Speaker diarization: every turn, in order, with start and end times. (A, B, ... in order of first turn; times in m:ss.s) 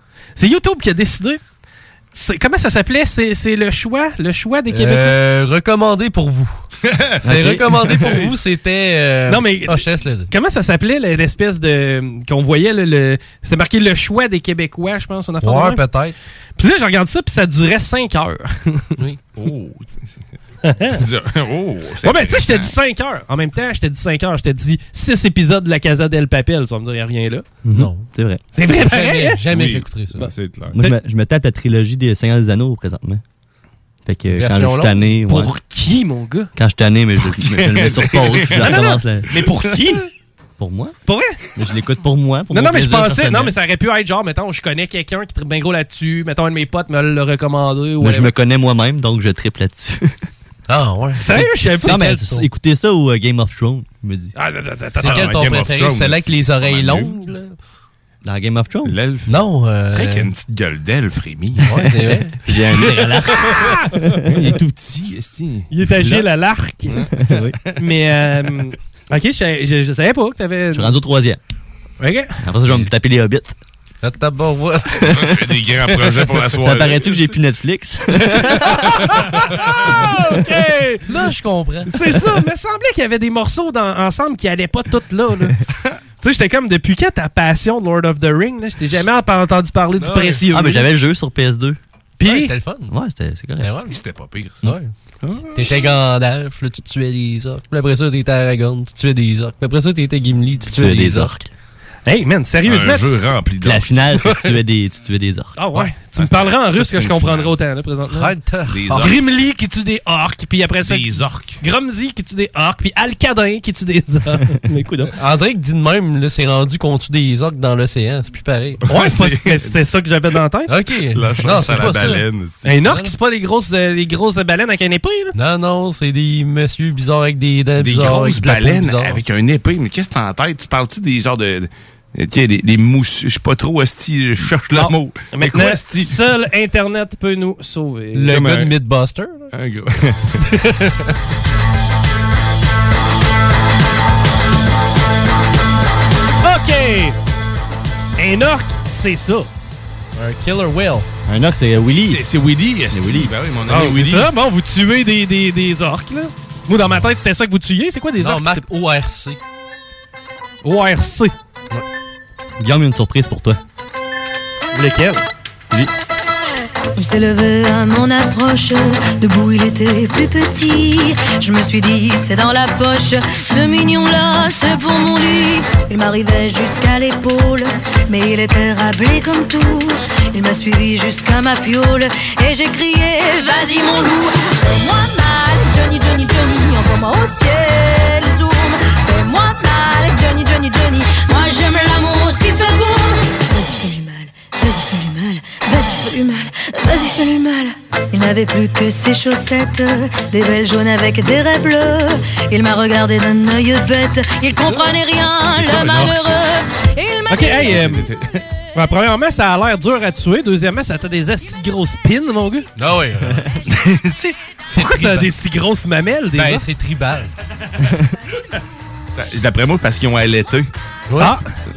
0:00.4-0:01.4 A
0:02.1-0:05.2 A
0:04.7-0:06.6 B
0:06.8-0:07.2 C
0:07.2-0:08.1 D
0:07.2-0:10.3 B
0:07.7-0:08.3 C
0:09.3-0:15.8 A
0:15.4-0:16.1 B
0:16.6-0:18.9 A
0:19.4-0:20.2 C
0:20.6-0:21.0 A
0:20.9-0:22.7 C
0:22.0-0:27.4 A
0:27.6-0:28.4 D
0:27.7-0:28.1 B
0:28.5-0:29.5 A
0:28.6-0:30.3 B
0:29.5-0:30.7 C
0:30.2-0:31.0 A
0:30.7-0:33.2 D
0:34.0-0:35.5 D
0:34.3-0:35.0 B
0:35.2-0:36.5 A
0:36.6-0:39.3 D
0:37.3-0:38.7 C
0:38.6-0:40.1 A
0:40.6-0:41.0 D
0:41.1-0:41.4 A
0:41.5-0:43.5 D
0:42.5-0:48.3 A
0:48.0-0:50.2 D
0:50.7-0:52.4 B
0:51.2-0:52.3 A
0:51.8-0:54.3 D
0:54.4-0:55.4 A
0:55.0-0:57.5 B
0:55.0-0:57.2 C
0:58.2-0:58.9 D
0:58.8-0:59.3 C
0:59.3-1:00.3 B
0:59.9-1:01.8 C
1:01.6-1:02.4 B
1:02.4-1:04.3 D
1:03.3-1:03.9 A
1:04.3-1:05.7 C
1:05.7-1:07.1 A
1:07.1-1:07.6 D
1:07.8-1:11.0 A
1:10.7-1:11.4 D
1:12.0-1:12.4 A
1:12.4-1:13.5 D
1:14.0-1:15.1 B
1:15.0-1:19.0 D
1:15.1-1:17.4 C
1:19.0-1:21.3 A
1:21.1-1:21.9 B
1:21.9-1:25.6 A
1:26.2-1:30.9 A
1:30.0-1:30.4 B
1:30.5-1:31.8 D
1:32.2-1:32.5 A
1:32.2-1:32.9 B
1:32.9-1:33.7 D
1:33.6-1:34.0 B
1:33.8-1:35.6 C
1:34.6-1:34.9 B
1:35.5-1:41.4 B
1:40.7-1:41.5 D
1:42.0-1:43.4 A
1:42.6-1:43.9 C
1:43.6-1:45.5 D
1:45.6-1:48.4 A
1:46.2-1:47.5 C
1:48.1-1:49.1 B
1:48.7-1:49.1 C
1:48.9-1:55.1 A
1:50.8-1:51.6 C
1:55.2-1:58.8 B
1:58.9-2:00.7 A
1:58.9-1:59.7 C
2:00.7-2:02.2 B
2:01.1-2:02.7 C
2:02.6-2:05.3 A
2:02.8-2:03.2 B
2:05.3-2:09.2 B
2:07.8-2:16.1 C
2:14.7-2:18.4 A
2:18.1-2:19.5 B
2:18.3-2:18.7 C
2:19.5-2:20.4 C
2:26.4-2:27.2 A
2:28.2-2:29.5 A
2:30.2-2:31.0 B
2:31.3-2:32.2 D
2:32.0-2:34.3 C
2:32.9-2:33.3 D
2:33.7-2:38.6 A
2:38.2-2:39.4 B
2:40.6-2:41.3 A
2:42.6-2:43.6 D
2:44.7-2:45.2 A
2:47.0-3:27.6 E
3:25.6-3:26.2 C
3:27.3-3:28.1 A
3:27.6-3:28.4 C
3:28.7-3:32.7 A
3:32.8-3:33.5 B
3:34.7-3:35.3 B
3:34.7-3:36.7 A
3:36.3-3:37.3 B
3:39.1-3:40.7 C
3:41.1-3:41.4 B